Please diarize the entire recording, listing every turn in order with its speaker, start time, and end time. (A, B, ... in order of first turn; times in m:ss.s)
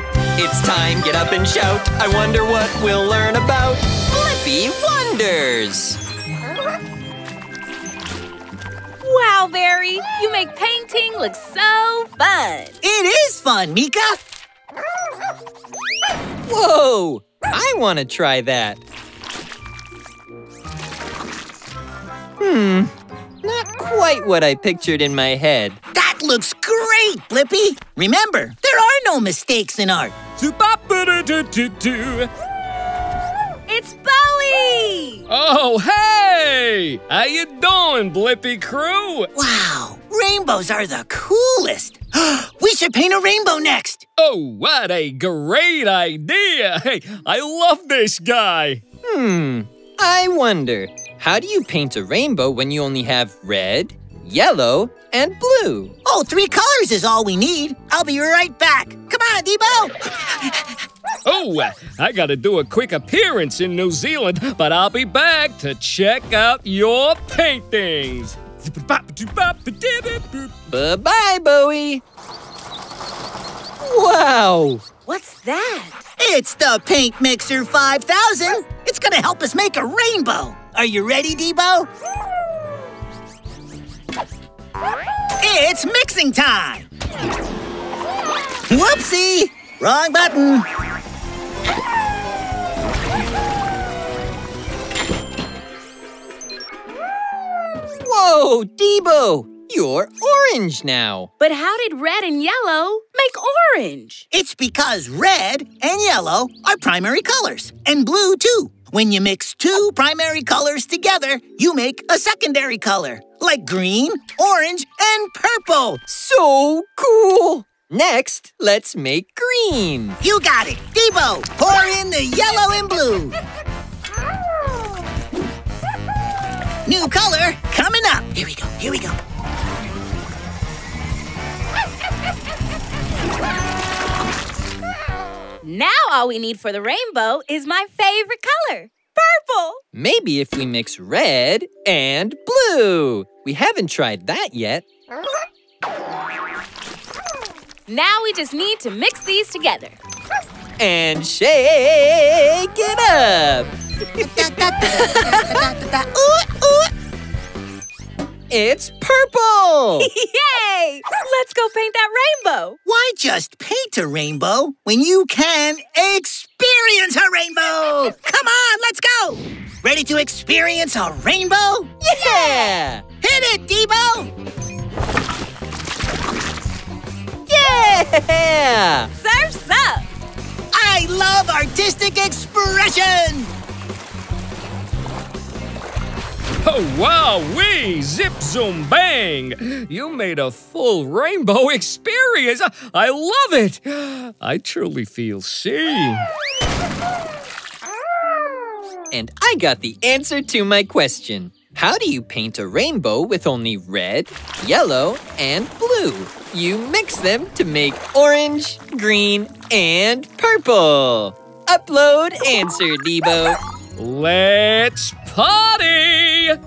0:00.4-0:06.0 A
0:09.0-0:12.8 B
0:12.8-0:14.2 C
0:16.5-0:18.8 A
0:22.4-0:22.9 A
0:23.4-0:25.8 A
0:25.9-0:30.2 C
0:30.4-0:32.3 D
0:33.7-0:35.3 B
0:35.3-0:39.3 D
0:39.3-0:44.0 C
0:44.2-0:48.8 D
0:49.0-0:56.0 A
0:56.0-1:00.7 C
1:01.2-1:10.5 D
1:10.7-1:12.0 A
1:13.8-1:14.8 A
1:15.1-1:16.0 B
1:16.2-1:21.9 C
1:25.4-1:26.9 C
1:28.7-1:30.7 C
1:38.0-1:41.3 A
1:41.4-1:44.2 B
1:44.3-1:56.0 C
1:56.1-2:00.2 A
2:00.2-2:03.4 C
2:06.9-2:09.2 C
2:15.6-2:19.8 B
2:19.9-2:24.8 A
2:27.9-2:30.0 B
2:30.8-2:33.7 A
2:34.2-2:36.9 C
2:34.9-2:35.6 B
2:38.5-2:40.1 A
2:40.0-2:42.8 B
2:42.8-2:51.9 C
2:52.0-2:53.0 A
2:52.1-2:52.7 B
2:53.2-2:54.3 C
2:57.5-2:59.1 A
2:59.2-3:00.1 B
3:00.7-3:03.5 C
3:06.6-3:16.3 D
3:19.1-3:33.6 A
3:34.0-3:36.6 D